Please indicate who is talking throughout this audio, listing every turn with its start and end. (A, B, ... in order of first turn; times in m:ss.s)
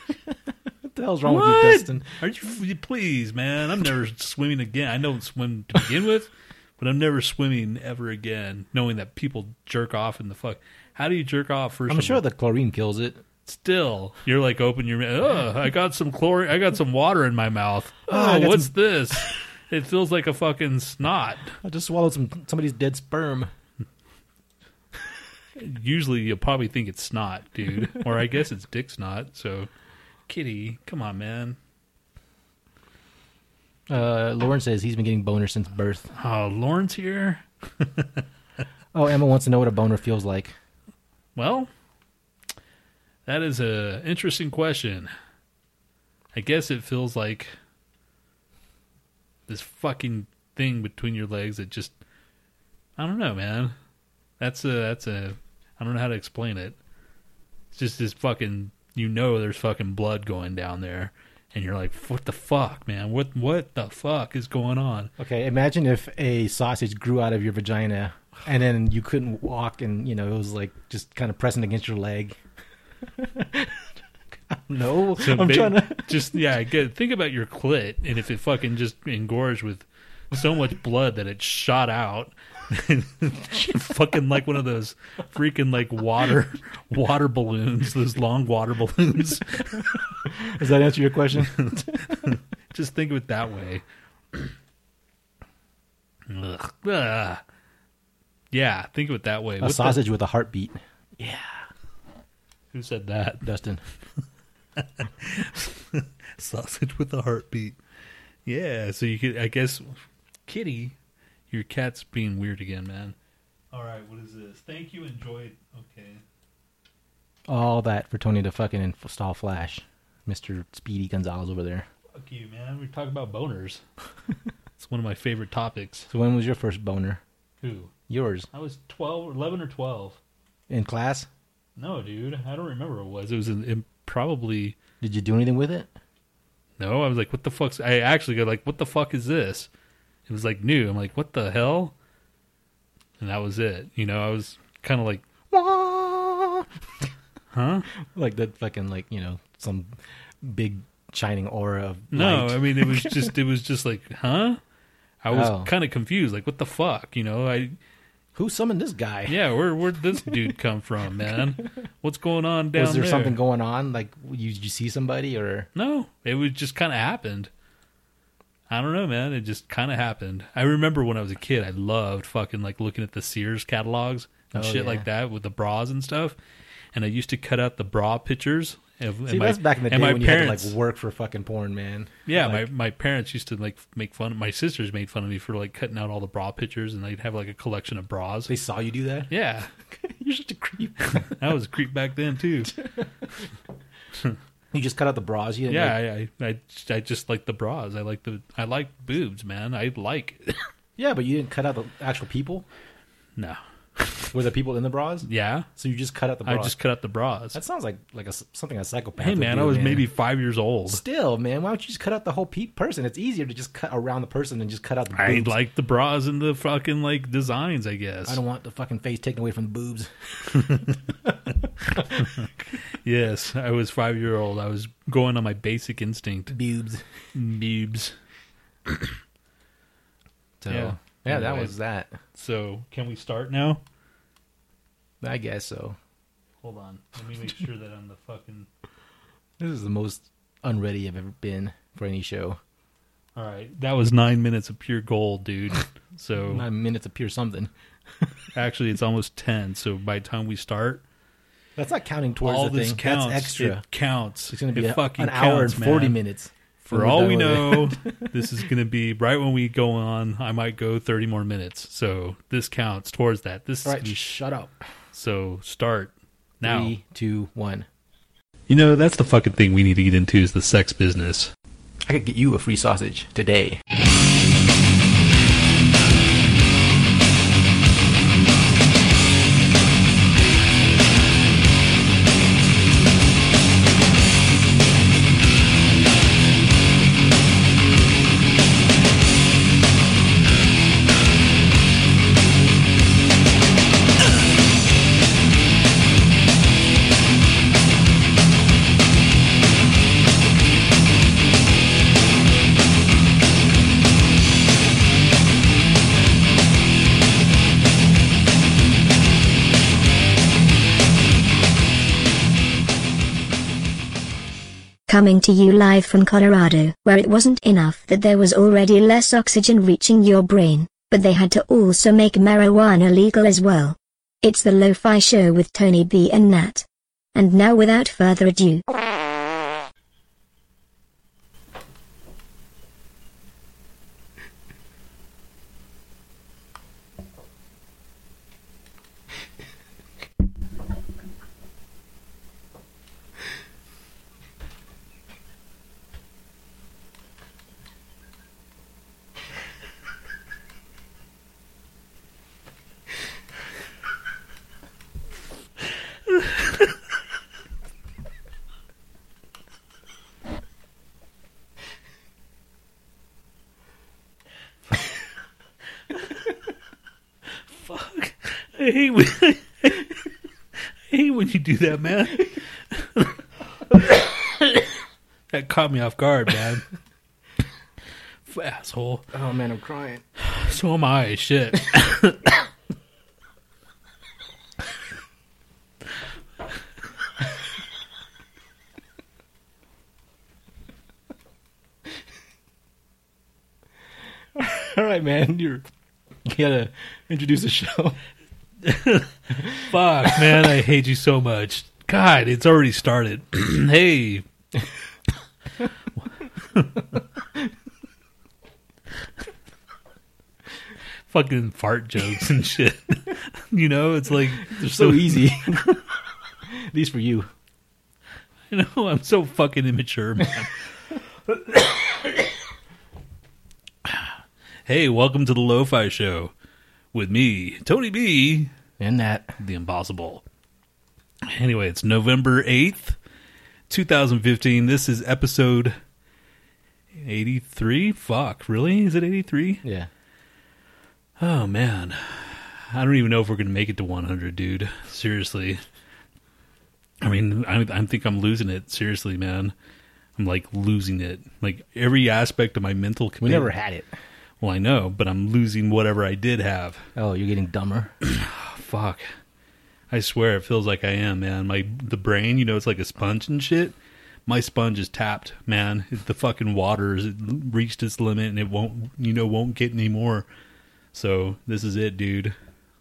0:00.8-0:02.1 A
0:01.2-0:12.2 B
0:11.9-0:13.2 A
0:13.4-0:21.6 B
0:18.1-0:19.2 A
0:21.6-0:23.5 A
0:25.6-0:29.7 B
0:30.3-0:31.6 B
0:33.9-0:36.1 A
0:36.1-0:38.2 B
0:38.9-0:40.5 A
0:41.4-0:41.7 B
0:43.3-0:45.1 B
0:46.3-0:47.5 B
0:49.5-0:52.0 B
0:53.0-0:53.7 B
0:54.4-0:56.8 B
0:57.7-1:05.1 B
1:05.2-1:12.4 A
1:13.2-1:13.9 A
1:14.5-1:16.3 A
1:14.8-1:29.8 B
1:30.2-1:32.3 A
1:31.6-1:33.8 B
1:36.3-1:37.4 B
1:38.5-1:40.0 B
1:39.6-1:41.7 A
1:42.7-1:43.5 B
1:43.4-1:43.8 A
1:44.8-1:47.8 B
1:48.4-1:51.0 B
1:51.5-1:53.2 B
1:53.7-1:56.2 B
1:57.5-2:01.9 A
2:02.2-2:03.8 B
2:04.8-2:06.1 B
2:06.1-2:07.2 A
2:07.6-2:07.9 B
2:08.1-2:08.5 A
2:08.5-2:10.2 B
2:10.7-2:11.3 A
2:11.8-2:14.8 B
2:15.0-2:15.9 A
2:16.8-2:19.7 B
2:20.3-2:22.0 B
2:23.2-2:25.2 B
2:25.5-2:26.7 A
2:27.5-2:27.9 B
2:28.1-2:33.3 A
2:32.1-2:34.6 B
2:35.2-2:37.8 B
2:35.3-2:35.7 A
2:38.4-2:39.4 A
2:39.3-2:43.4 B
2:42.8-2:45.7 A
2:45.8-2:47.5 B
2:48.7-2:56.4 B
2:54.5-2:55.1 A
2:56.9-3:00.8 B
2:59.3-3:02.7 A
3:02.3-3:08.5 B
3:08.5-3:09.3 A
3:09.3-3:09.7 B
3:09.9-3:11.3 A
3:11.0-3:12.8 B
3:12.8-3:13.3 A
3:14.7-3:16.0 A
3:15.7-3:20.7 B
3:21.0-3:22.7 A
3:23.4-3:24.3 B
3:24.3-3:26.8 A
3:25.2-3:25.7 B
3:26.4-3:27.6 B
3:27.5-3:30.1 A
3:29.2-3:31.0 B
3:30.9-3:35.6 A
3:35.2-3:38.4 B
3:38.3-3:41.3 A
3:40.5-3:41.0 B
3:41.9-3:42.2 A
3:42.2-3:46.6 B
3:46.5-3:47.0 A
3:47.3-3:48.2 B
3:50.6-3:52.1 A
3:50.7-3:51.8 B
3:52.3-3:53.8 B
3:55.2-3:56.0 A
3:56.6-3:58.7 B
3:59.6-4:02.6 A
4:03.4-4:06.7 B
4:06.5-4:08.3 A
4:08.5-4:11.0 B
4:11.8-4:13.8 A
4:12.4-4:16.2 B
4:14.5-4:18.3 A
4:16.8-4:24.3 B
4:23.8-4:24.8 A
4:25.1-4:26.9 B
4:26.6-4:27.9 A
4:28.7-4:31.5 B
4:32.0-4:33.8 A
5:15.1-5:28.8 C
6:07.7-6:10.1 B
6:11.1-6:14.9 B
6:15.5-6:16.8 B
6:18.5-6:19.3 B
6:19.3-6:20.2 A
6:20.4-6:22.6 B
6:34.6-6:35.9 A
6:36.4-6:38.2 A
6:38.8-6:44.5 B
6:40.3-6:40.6 A
6:46.7-6:47.0 B
6:51.3-6:55.8 B
6:54.6-6:56.0 A
6:56.6-6:57.5 A
6:58.7-7:00.8 B
7:01.5-7:02.4 B
7:04.9-7:06.5 B
7:07.1-7:08.7 B
7:09.0-7:09.6 A
7:09.6-7:10.4 B
7:11.4-7:13.2 B
7:13.9-7:16.0 B
7:17.2-7:19.8 B
7:19.8-7:20.1 A
7:21.4-7:25.8 B
7:27.2-7:29.7 B
7:30.4-7:33.7 B
7:33.4-7:34.1 A
7:34.6-7:37.0 B
7:37.2-7:38.1 A
7:38.2-7:39.3 B
7:40.1-7:44.0 B
7:44.5-7:50.5 B
7:51.1-7:52.6 B